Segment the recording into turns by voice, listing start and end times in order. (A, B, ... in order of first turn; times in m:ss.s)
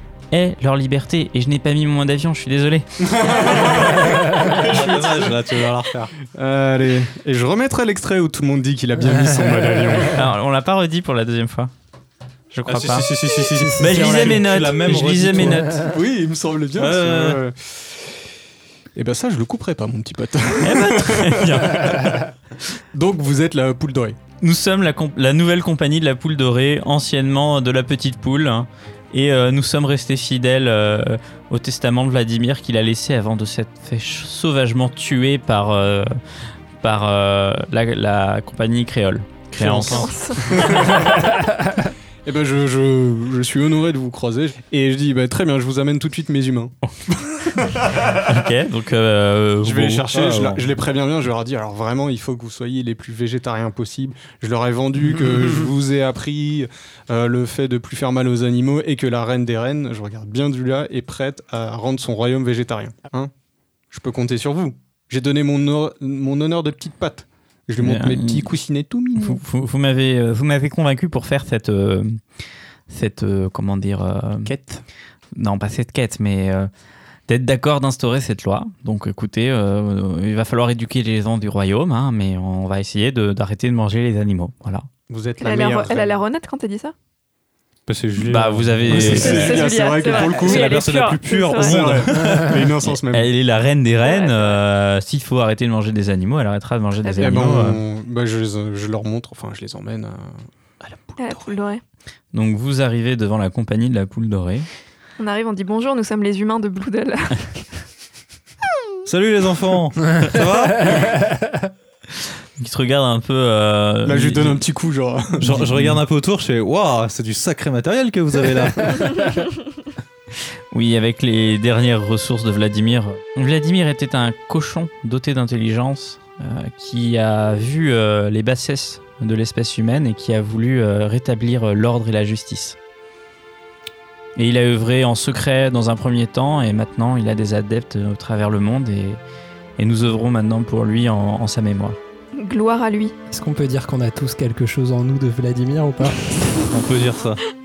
0:00.3-0:03.1 A
0:03.0-0:05.5 B
0:03.7-0:06.1 C
0:06.2-0:10.2 B
0:10.1-0:11.7 A
0:12.5-0:13.1 A
0:12.7-0:15.7 C
0:13.6-0:16.0 D
0:13.8-0:15.8 A
0:15.8-0:18.2 B
0:16.8-0:17.4 C
0:18.9-0:22.2 B
0:20.6-0:22.2 A
0:22.9-0:24.2 B
0:24.4-0:36.1 A
0:36.8-0:40.1 A
0:39.6-0:41.4 B
0:39.8-0:41.1 E
0:42.2-0:48.2 B
0:48.1-0:50.5 A
0:49.6-1:03.3 B
1:03.9-1:09.4 B
1:07.8-1:08.5 A
1:09.2-1:12.2 A
1:12.9-1:14.5 A
1:14.5-1:14.8 D
1:15.3-1:16.7 A
1:17.3-1:24.9 A
1:25.1-1:26.2 B
1:25.4-1:26.9 E
1:27.9-1:29.6 C
1:28.2-1:29.5 A
1:28.9-1:30.8 B
1:29.0-1:31.8 E
1:30.2-1:32.6 C
1:31.5-1:33.3 B
1:32.8-1:37.8 A
1:34.0-1:34.6 E
1:37.0-1:37.4 E
1:37.2-1:41.6 B
1:41.2-1:41.8 E
1:42.3-1:44.7 A
1:45.2-1:47.6 E
1:49.0-1:51.2 C
1:52.6-1:54.6 A
1:54.0-1:55.7 B
1:55.4-1:59.4 C
2:00.7-2:12.8 A
2:14.4-2:19.2 A
2:19.8-2:22.0 A
2:22.3-2:23.1 E
2:23.3-2:26.6 D
2:26.7-2:27.4 C